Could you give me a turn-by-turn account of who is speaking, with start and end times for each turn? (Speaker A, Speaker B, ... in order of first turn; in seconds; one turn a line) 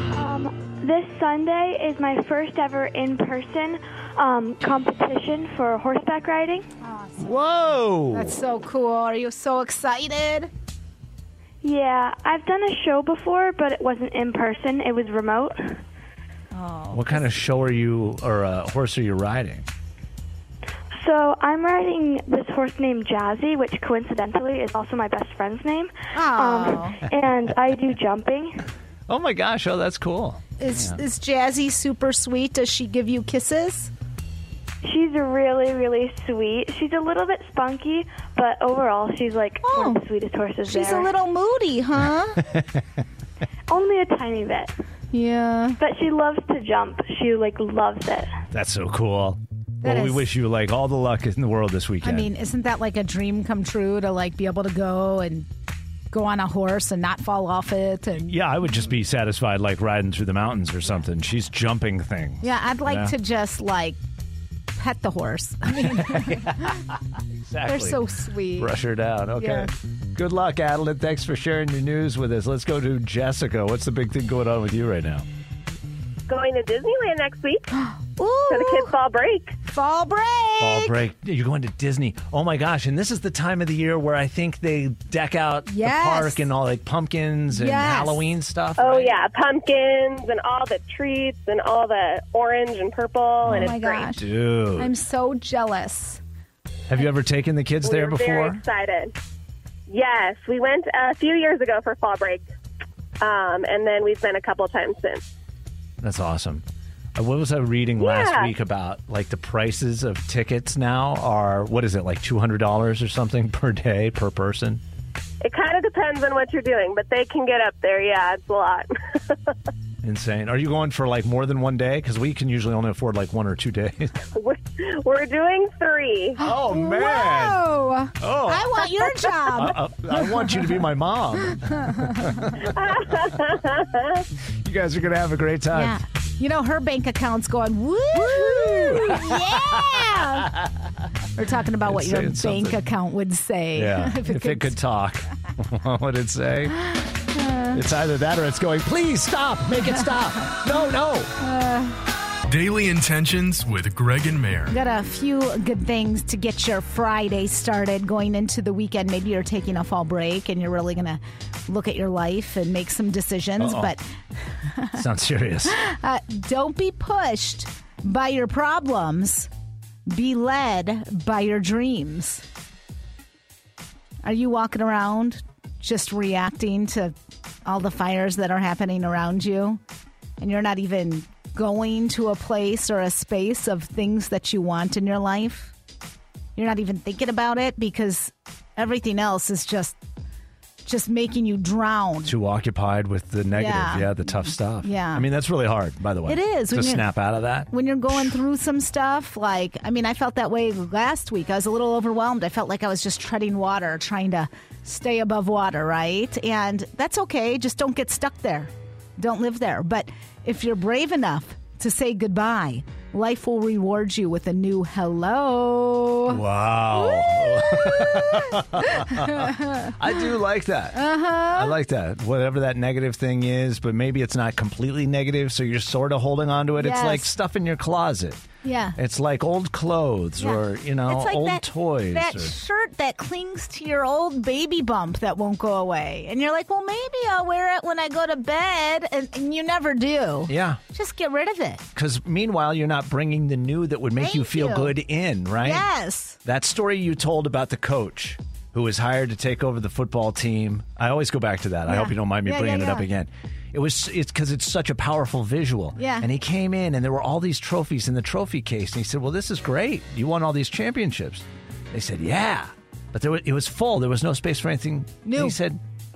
Speaker A: 0.1-6.7
Speaker B: 6.8-7.3
Speaker C: 7.2-8.3
Speaker B: 8.1-10.5
Speaker A: 11.6-15.8
Speaker B: 16.5-17.2
Speaker C: 16.9-19.7
Speaker A: 21.0-28.7
Speaker B: 26.1-27.0
Speaker C: 29.1-31.0
Speaker B: 30.6-33.9
Speaker A: 34.8-41.1
Speaker B: 39.6-40.0
Speaker B: 40.6-42.5
Speaker C: 42.5-42.8
Speaker A: 43.7-44.7
Speaker B: 45.1-45.8
Speaker A: 45.8-48.4
Speaker C: 48.5-52.3
Speaker B: 49.8-50.3
Speaker B: 52.0-55.5
Speaker B: 56.1-58.3
Speaker C: 58.2-63.1
Speaker B: 62.4-64.0
Speaker B: 64.8-66.8
Speaker C: 65.7-68.0
Speaker B: 67.7-68.7
Speaker C: 68.6-75.3
Speaker B: 69.4-69.7
Speaker D: 76.3-77.7
Speaker B: 77.8-78.9
Speaker D: 78.5-79.6
Speaker B: 79.7-81.0
Speaker C: 80.6-89.2
Speaker B: 85.7-86.5
Speaker B: 87.5-88.2
Speaker D: 88.8-94.1
Speaker C: 93.4-94.9
Speaker B: 93.5-96.2
Speaker C: 96.9-98.6
Speaker D: 97.8-99.1
Speaker D: 99.9-102.5
Speaker D: 103.2-105.2
Speaker C: 106.0-106.6
Speaker C: 107.2-114.8
Speaker D: 108.0-108.5
Speaker D: 115.4-119.5
Speaker C: 120.0-124.2
Speaker D: 124.3-126.4
Speaker C: 126.4-127.6
Speaker B: 126.4-130.6
Speaker C: 128.2-132.7
Speaker B: 131.8-132.4
Speaker D: 132.7-134.2
Speaker C: 134.6-136.0
Speaker B: 135.7-140.5
Speaker C: 138.1-140.9
Speaker B: 141.4-144.8
Speaker C: 141.8-142.8
Speaker C: 143.8-146.8
Speaker B: 147.3-147.8
Speaker C: 147.7-151.3
Speaker B: 151.4-152.0
Speaker E: 152.5-154.7
Speaker B: 154.7-164.0
Speaker C: 163.6-164.0
Speaker B: 164.7-165.0
Speaker C: 164.9-165.8
Speaker B: 165.7-169.5
Speaker B: 170.1-172.4
Speaker B: 174.2-177.1
Speaker B: 177.7-179.8
Speaker B: 180.4-185.7
Speaker B: 186.6-190.0
Speaker B: 190.8-192.3
Speaker C: 192.2-198.4
Speaker B: 193.5-195.3
Speaker B: 196.3-197.1
Speaker B: 197.7-216.4
Speaker C: 216.3-228.4
Speaker B: 216.9-219.9
Speaker B: 220.9-221.8
Speaker B: 226.8-227.3
Speaker B: 228.6-229.0
Speaker C: 229.0-232.6
Speaker B: 230.4-241.8
Speaker C: 240.5-240.8
Speaker C: 241.9-245.9
Speaker B: 244.2-245.0
Speaker B: 245.6-246.4
Speaker C: 246.4-265.8
Speaker B: 251.9-253.1
Speaker B: 256.0-256.3
Speaker B: 265.2-265.6